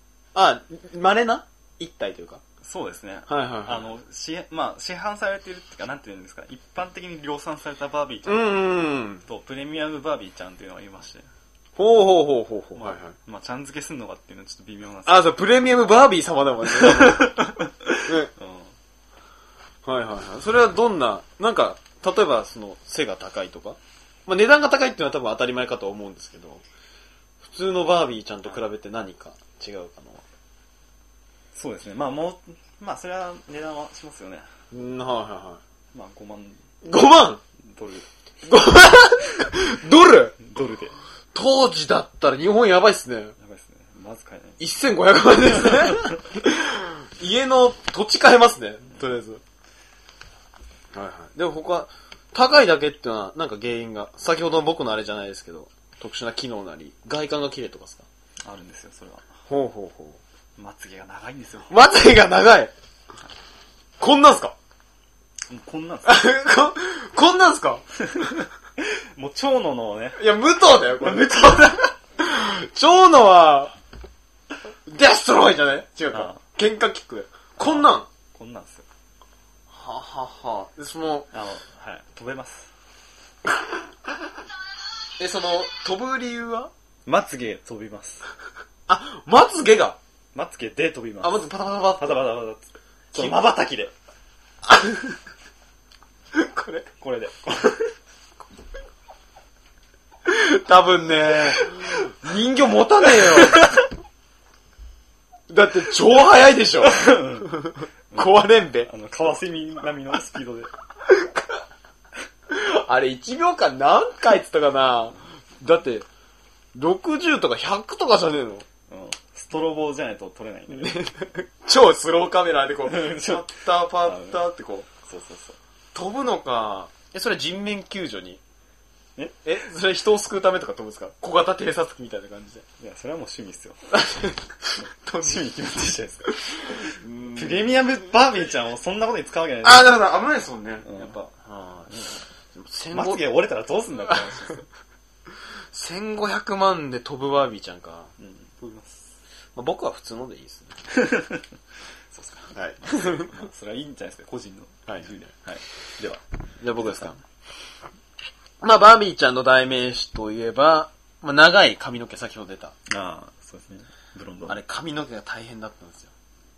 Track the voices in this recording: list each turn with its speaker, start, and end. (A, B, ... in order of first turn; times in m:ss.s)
0:00.4-0:02.4 A
0:02.6-0:08.6 B
0:03.3-0:03.8 A
0:08.3-0:09.2 A
0:09.2-0:11.2 B
0:11.8-0:13.1 A
0:12.8-0:15.4 B
0:15.1-0:17.4 A
0:16.6-0:18.7 B
0:18.1-0:18.3 A
0:19.8-0:26.6 A
0:27.4-0:30.2 A
0:31.5-0:34.5 B
0:34.7-0:35.6 A
0:35.9-0:36.7 B
0:36.8-0:37.4 A
0:37.6-0:38.1 B
0:38.4-0:40.4 A
0:40.4-0:41.0 B
0:41.3-0:43.4 A
0:43.4-0:44.7 B
0:44.6-0:49.4 A
0:45.6-0:46.1 B
0:50.9-0:58.1 A
0:58.4-0:59.4 B
0:59.5-1:00.2 A
1:00.6-1:01.7 B
1:01.7-1:02.7 A
1:04.0-1:04.6 A
1:05.5-1:06.3 B
1:06.0-1:07.8 A
1:08.0-1:10.2 B
1:10.2-1:13.8 A
1:11.0-1:11.9 B
1:14.9-1:18.1 A
1:16.1-1:16.4 B
1:17.6-1:18.8 B
1:19.7-1:21.3 A
1:21.3-1:22.7 B
1:25.2-1:26.7 A
1:27.1-1:28.2 B
1:28.9-1:30.0 A
1:30.3-1:31.5 B
1:31.2-1:32.3 A
1:32.0-1:33.9 B
1:33.1-1:33.4 A
1:34.6-1:35.2 A
1:36.3-1:36.9 A
1:37.0-1:37.9 B
1:40.2-1:43.8 A
1:43.4-1:43.8 B
1:45.5-1:48.9 A
1:46.8-1:50.7 B
1:51.1-1:51.6 A
1:52.5-1:56.1 A
1:56.7-1:58.7 A
1:58.9-2:01.1 B
2:00.7-2:04.9 A
2:02.8-2:04.4 B
2:05.0-2:05.6 B
2:05.9-2:08.4 A
2:09.4-2:12.6 A
2:12.8-2:14.1 B
2:13.9-2:15.4 A
2:15.1-2:20.0 B
2:16.8-2:17.7 A
2:19.6-2:21.4 A
2:20.8-2:22.2 B
2:22.6-2:23.2 A
2:22.9-2:24.7 B
2:25.7-2:28.1 A
2:28.2-2:29.1 B
2:29.6-2:30.8 A
2:30.9-2:31.5 B
2:32.1-2:36.2 B
2:32.5-2:33.3 A
2:36.6-2:37.2 A
2:36.8-2:37.1 B
2:38.6-2:42.7 A
2:42.9-2:44.6 B
2:44.5-2:46.1 A